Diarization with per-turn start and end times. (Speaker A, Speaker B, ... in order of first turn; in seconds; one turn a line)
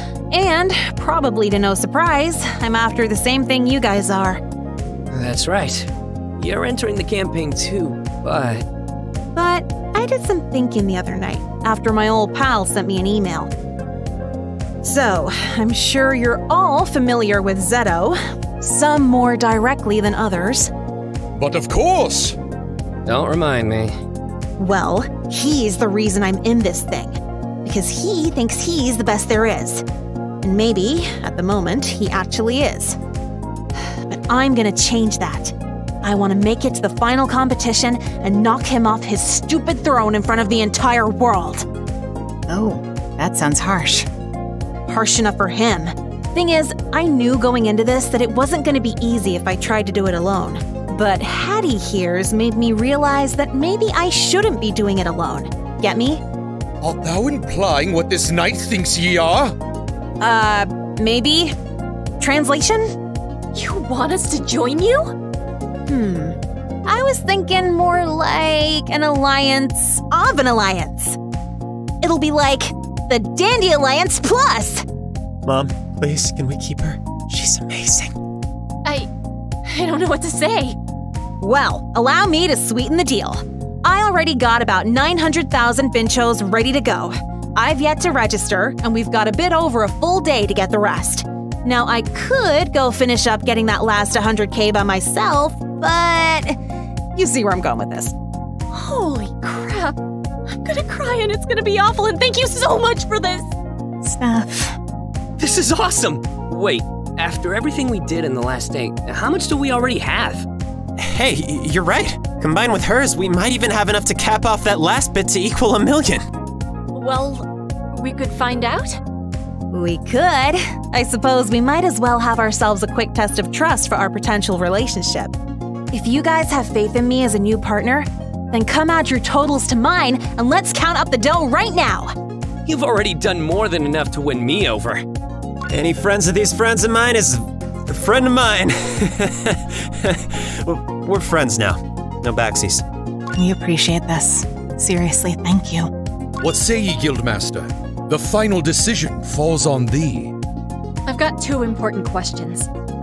Speaker A: 0.3-4.4
Speaker B: 5.1-8.6
Speaker A: 9.3-13.5
Speaker A: 14.8-20.7
Speaker C: 21.4-22.4
Speaker B: 23.1-23.9
Speaker A: 24.6-29.8
Speaker A: 30.4-33.0
Speaker A: 34.1-41.6
Speaker D: 42.5-44.0
Speaker A: 44.9-56.2
Speaker C: 56.8-59.5
Speaker A: 60.2-61.5
Speaker A: 62.2-62.9
Speaker E: 63.5-65.1
Speaker A: 65.9-71.2
Speaker A: 72.0-74.8
Speaker F: 75.4-78.1
Speaker E: 79.6-80.8
Speaker A: 81.4-96.5
Speaker A: 97.2-98.1
Speaker E: 98.7-100.0
Speaker E: 100.5-103.5
Speaker D: 104.0-104.8
Speaker B: 105.4-110.5
Speaker F: 111.0-116.2
Speaker E: 116.9-119.0
Speaker A: 119.7-125.3
Speaker A: 125.9-132.1
Speaker B: 132.7-135.0
Speaker F: 135.7-142.8
Speaker D: 143.4-145.9
Speaker C: 146.4-150.3
Speaker E: 151.1-152.7